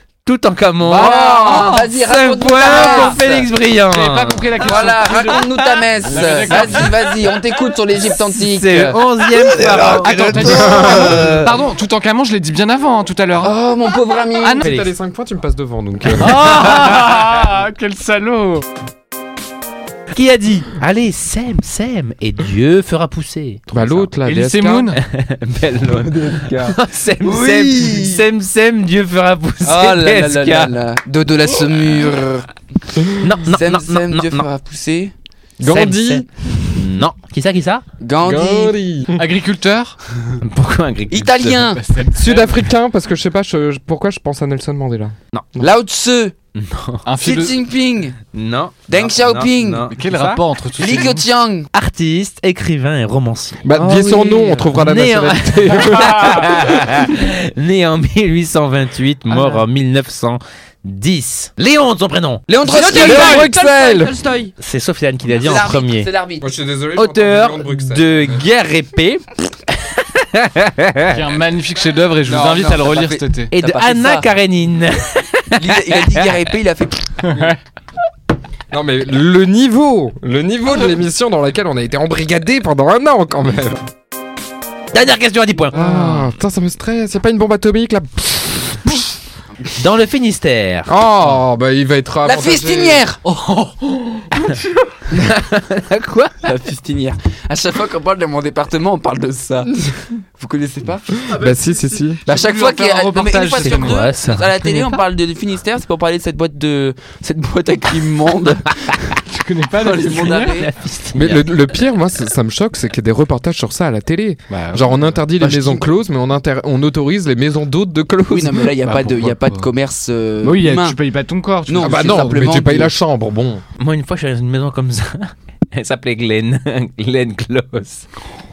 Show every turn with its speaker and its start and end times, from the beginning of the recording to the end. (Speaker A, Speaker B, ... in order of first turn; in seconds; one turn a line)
Speaker A: 0.2-4.5
Speaker B: 0.8-1.9
Speaker C: 0.9-3.5
Speaker B: 2.6-3.4
Speaker B: 3.9-7.1
Speaker C: 4.6-11.3
Speaker A: 8.3-11.6
Speaker B: 10.0-13.6
Speaker D: 10.8-11.2
Speaker C: 13.4-14.7
Speaker B: 14.4-14.7
Speaker D: 14.6-16.8
Speaker A: 14.6-14.9
Speaker B: 16.2-18.7
Speaker A: 16.3-17.1
Speaker A: 20.1-24.1
Speaker D: 23.7-24.9
Speaker B: 24.3-25.0
Speaker A: 24.9-30.7
Speaker C: 26.1-28.3
Speaker C: 29.6-32.5
Speaker A: 33.2-34.5
Speaker C: 33.5-35.1
Speaker D: 35.6-36.9
Speaker A: 35.6-37.8
Speaker C: 38.0-38.8
Speaker D: 38.2-39.2
Speaker B: 39.1-40.0
Speaker A: 40.4-41.7
Speaker C: 41.1-41.8
Speaker B: 41.7-42.7
Speaker D: 42.1-45.7
Speaker C: 45.6-46.3
Speaker A: 46.5-47.0
Speaker B: 47.0-47.6
Speaker C: 47.2-48.2
Speaker A: 48.3-51.1
Speaker C: 48.9-49.9
Speaker B: 49.9-51.2
Speaker C: 50.8-51.7
Speaker A: 51.7-53.6
Speaker D: 53.6-56.9
Speaker E: 53.7-54.8
Speaker A: 54.7-62.5
Speaker E: 59.3-59.6
Speaker C: 62.5-63.6
Speaker E: 62.6-64.5
Speaker D: 62.6-64.1
Speaker A: 64.6-66.1
Speaker C: 65.4-66.6
Speaker D: 66.4-68.5
Speaker A: 67.0-71.2
Speaker B: 71.1-73.5
Speaker C: 72.3-74.3
Speaker A: 73.5-76.5
Speaker C: 75.6-77.2
Speaker B: 77.2-77.6
Speaker D: 78.7-83.8
Speaker A: 84.9-85.8
Speaker D: 85.7-89.1
Speaker B: 85.7-86.3
Speaker A: 89.7-90.9
Speaker D: 90.9-93.0
Speaker C: 92.2-93.2
Speaker B: 93.2-94.7
Speaker A: 95.1-96.5
Speaker C: 96.4-101.4
Speaker D: 101.3-102.2
Speaker B: 102.2-104.0
Speaker C: 102.3-109.2
Speaker A: 103.6-105.0
Speaker B: 109.3-110.7
Speaker C: 109.8-110.7
Speaker A: 110.5-111.5
Speaker D: 111.2-119.3
Speaker B: 114.5-115.2
Speaker C: 115.4-115.9
Speaker C: 118.3-121.0
Speaker B: 118.9-119.7
Speaker B: 120.4-122.4
Speaker C: 121.7-123.0
Speaker D: 121.8-123.6
Speaker A: 123.8-128.1